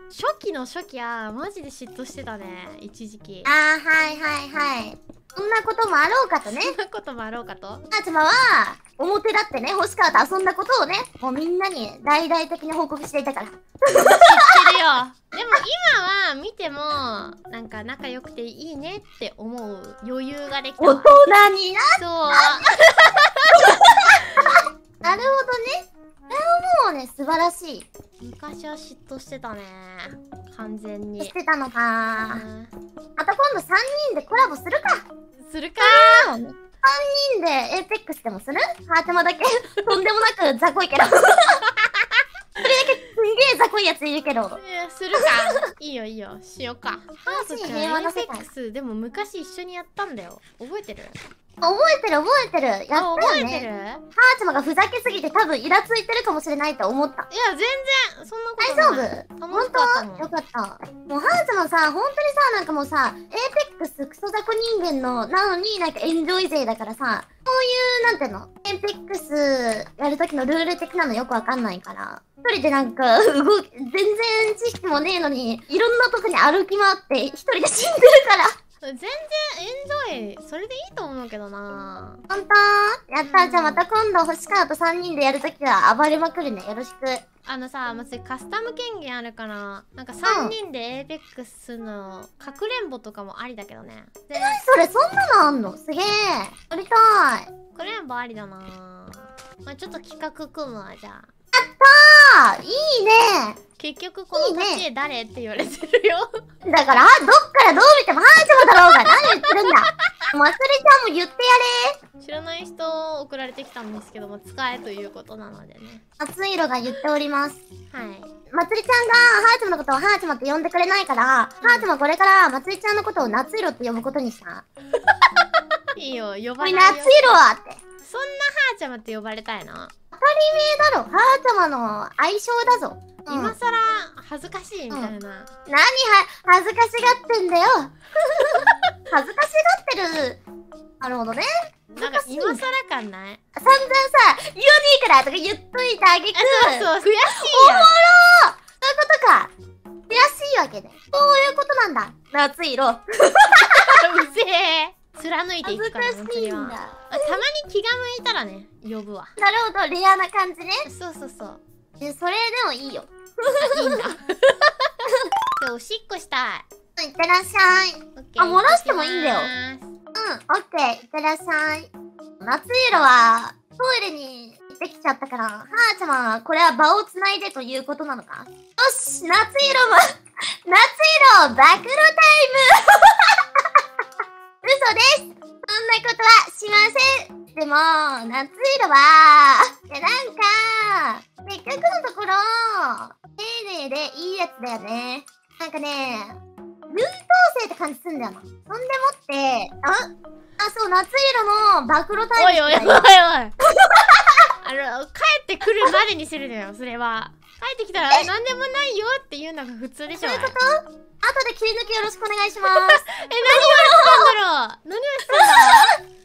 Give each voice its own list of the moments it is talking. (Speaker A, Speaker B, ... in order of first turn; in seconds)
Speaker A: 0.1-3.5, 6.4-7.8, 13.9-21.1, 22.0-24.4, 28.2-31.3, 32.3-32.7, 35.4-36.3, 44.5-51.2, 52.9-54.0, 57.3-60.3, 78.8-82.2, 83.2-83.8, 87.5-94.6, 97.7-101.3, 103.8-106.4, 108.7-109.5, 112.2-116.0, 117.9-118.3, 121.6-121.9, 125.9-127.4, 128.0-129.9, 133.3-135.5, 138.5-138.8, 142.0-143.4, 146.3-147.9, 153.5-159.3, 160.8-161.6, 163.6-164.9, 165.6-166.7, 168.2-169.9, 202.3-203.5, 204.6-210.6, 212.7-215.9
Speaker B: 3.4-6.7, 7.9-14.2, 20.8-22.7, 23.6-27.9, 31.2-32.4, 33.2-35.0, 35.8-41.6, 42.6-44.6, 47.2-48.5, 51.6-57.3, 58.6-78.5, 82.3-87.2, 90.2-90.5, 94.3-97.5, 101.5-103.6, 104.3-104.8, 106.7-112.0, 116.2-117.6, 118.5-124.6, 126.6-127.8, 130.1-133.6, 135.7-140.4, 141.0-142.6, 143.6-149.5, 150.1-154.0, 155.6-157.4, 159.4-160.8, 162.0-164.1, 167.0-169.5, 170.1-180.0, 180.6-183.8, 184.6-196.4, 196.9-203.1, 203.8-204.3, 210.2-214.3, 215.3-215.9